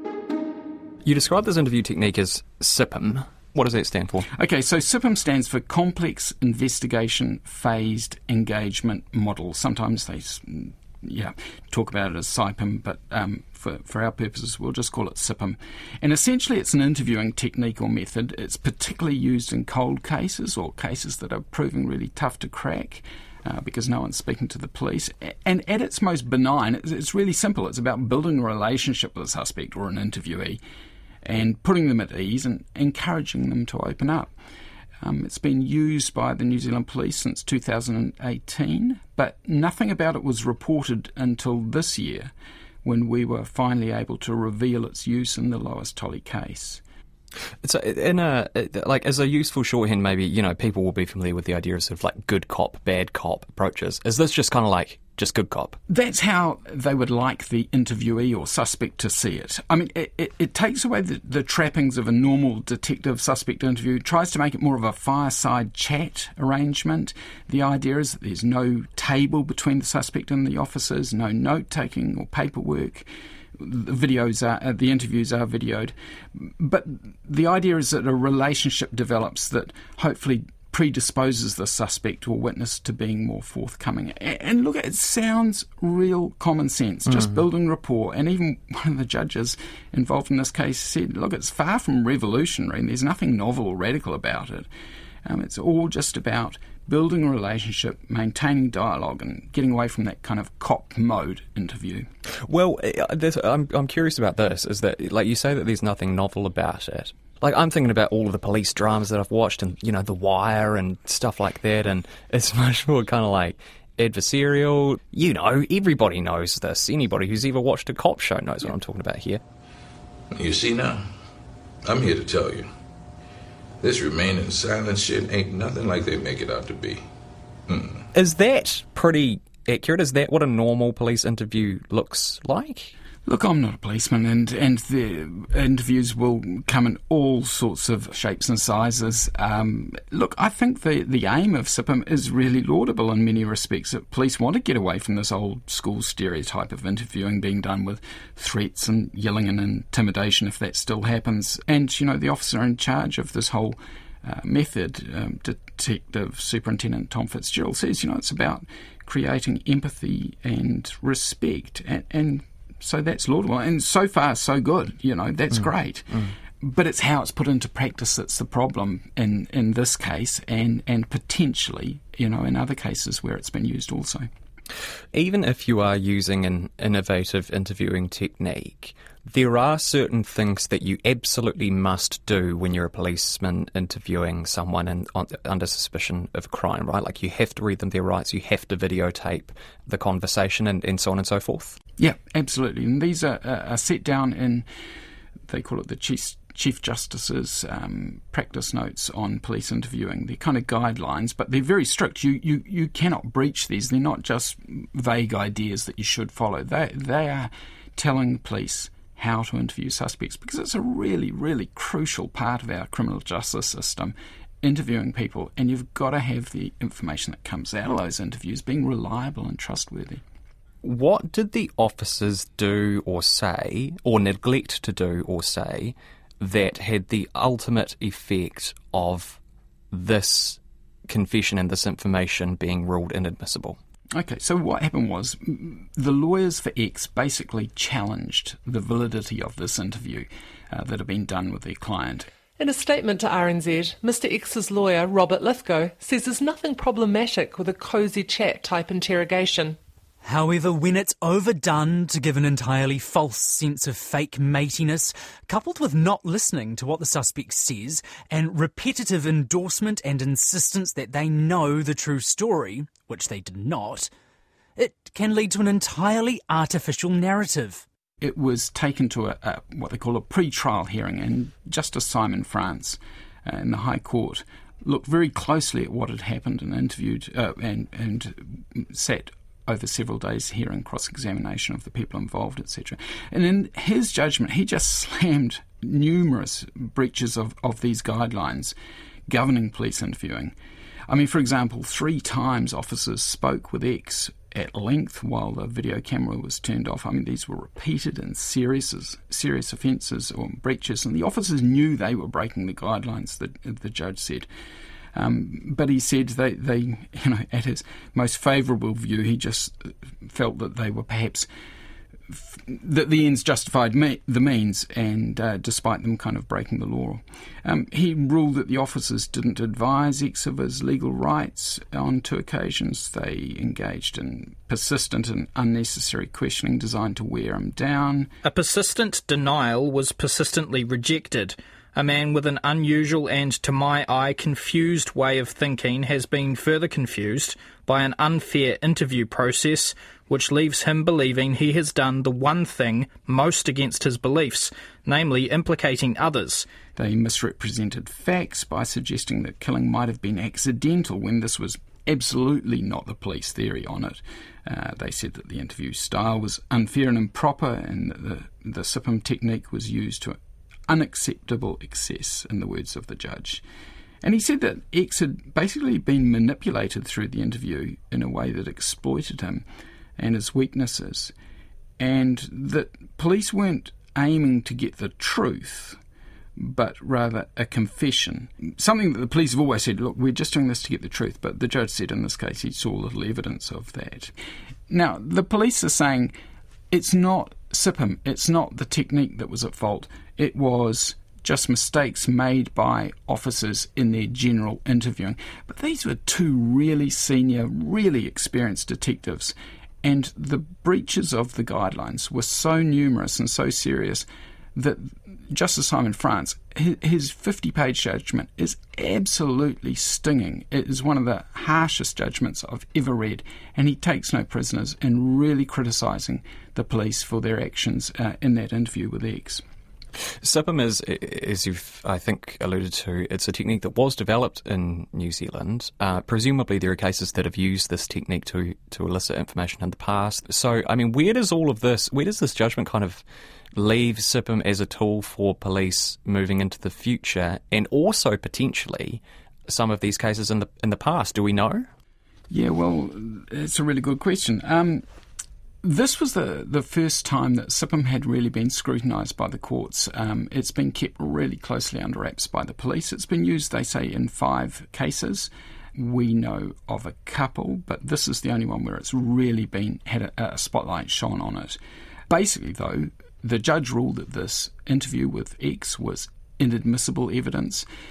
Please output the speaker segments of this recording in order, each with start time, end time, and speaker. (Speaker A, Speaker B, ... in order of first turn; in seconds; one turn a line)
Speaker A: 1.0-4.3
Speaker B: 4.3-30.6
Speaker B: 31.2-34.3
Speaker B: 35.0-42.3
Speaker B: 42.8-46.8
Speaker A: 47.6-55.8
Speaker B: 55.9-94.7
Speaker B: 95.2-102.1
Speaker A: 102.4-119.4
Speaker C: 120.3-121.0
Speaker C: 121.8-122.7
Speaker C: 123.8-127.0
Speaker C: 127.7-128.0
Speaker A: 128.1-132.9
Speaker B: 133.2-174.3
Speaker A: 175.1-191.8
Speaker B: 192.0-194.7
Speaker B: 195.5-220.2
Speaker A: 220.8-229.4
Speaker A: 229.9-233.8
Speaker B: 234.1-242.3
Speaker D: 242.6-249.8
Speaker E: 250.2-264.1
Speaker E: 264.8-267.8
Speaker B: 268.2-288.7
Speaker B: 289.3-290.5
Speaker B: 291.1-304.5
Speaker B: 305.1-311.5
Speaker B: 312.3-328.3
Speaker F: 328.4-346.7
Speaker B: 346.9-363.6
Speaker B: 364.2-369.6
Speaker B: 370.2-371.3
Speaker B: 372.0-376.0
Speaker B: 376.6-384.3
Speaker B: 384.9-386.3
Speaker B: 386.9-419.6
Speaker A: 420.4-433.2
Speaker A: 433.7-441.9
Speaker B: 442.5-445.0
Speaker B: 445.8-467.9